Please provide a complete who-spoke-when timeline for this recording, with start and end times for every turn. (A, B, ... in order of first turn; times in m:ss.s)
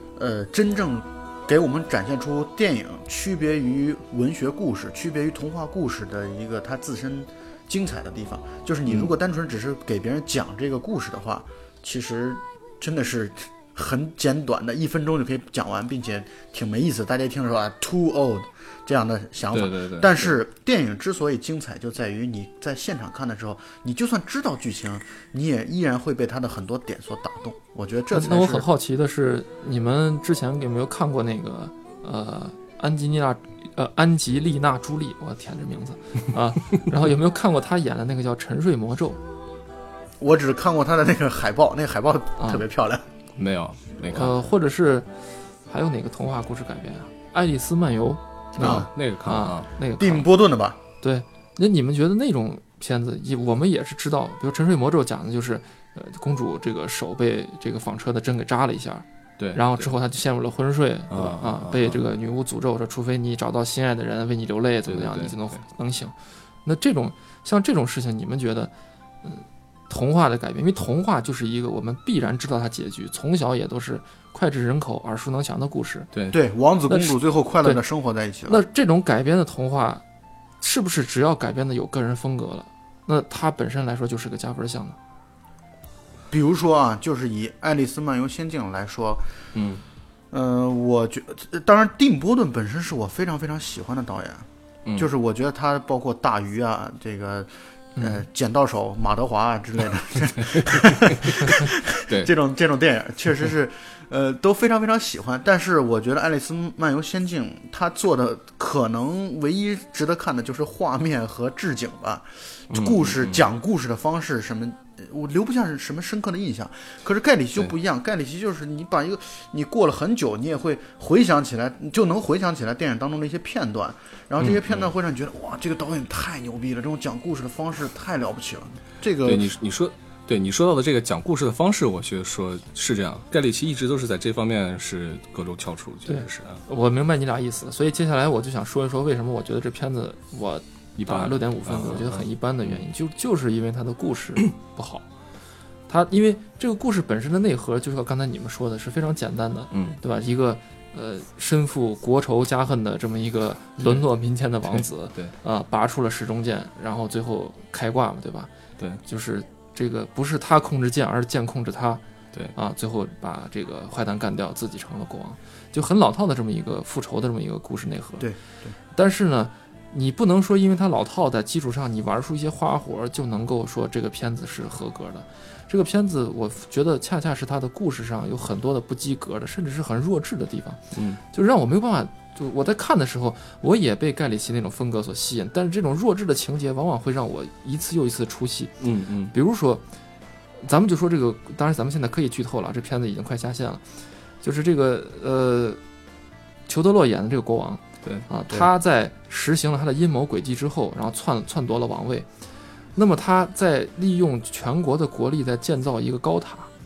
0:00.2-0:28.7 A
0:08.8-0:09.1 B
0:19.5-0:20.4 B
0:28.1-0:39.2 C
0:40.2-0:43.0 A
0:42.4-0:42.6 C
0:43.4-0:44.3 B
0:44.1-0:45.1 C
0:45.7-0:50.2 C
0:48.6-0:49.7 B
0:48.6-0:48.9 A
0:50.0-0:50.8 A
0:51.0-1:06.1 C
0:59.4-0:59.9 B
1:01.1-1:02.0 B
1:04.9-1:05.4 B
1:06.6-1:08.7 C
1:09.2-1:16.1 C
1:16.1-1:16.4 B
1:16.3-1:18.6 A
1:16.9-1:17.8 C
1:18.5-1:20.0 C
1:20.6-1:25.0 C
1:26.3-1:29.2 A
1:29.5-1:29.8 B
1:30.3-1:34.4 A
1:35.0-2:09.5 A
1:38.0-1:38.2 C
1:52.7-1:53.4 B
2:04.4-2:04.9 B
2:09.2-2:16.6 B
2:16.1-2:25.0 C
2:21.0-2:22.8 B
2:25.9-2:38.5 C
2:29.7-2:30.0 B
2:34.7-2:35.3 B
2:39.0-2:42.0 C
2:42.5-2:48.3 C
2:48.9-3:00.8 C
3:00.9-3:01.2 B
3:01.3-3:08.7 C
3:08.8-3:09.3 B
3:09.3-3:09.8 C
3:10.6-3:13.8 C
3:14.4-3:15.8 C
3:16.7-3:22.3 C
3:23.0-3:26.7 C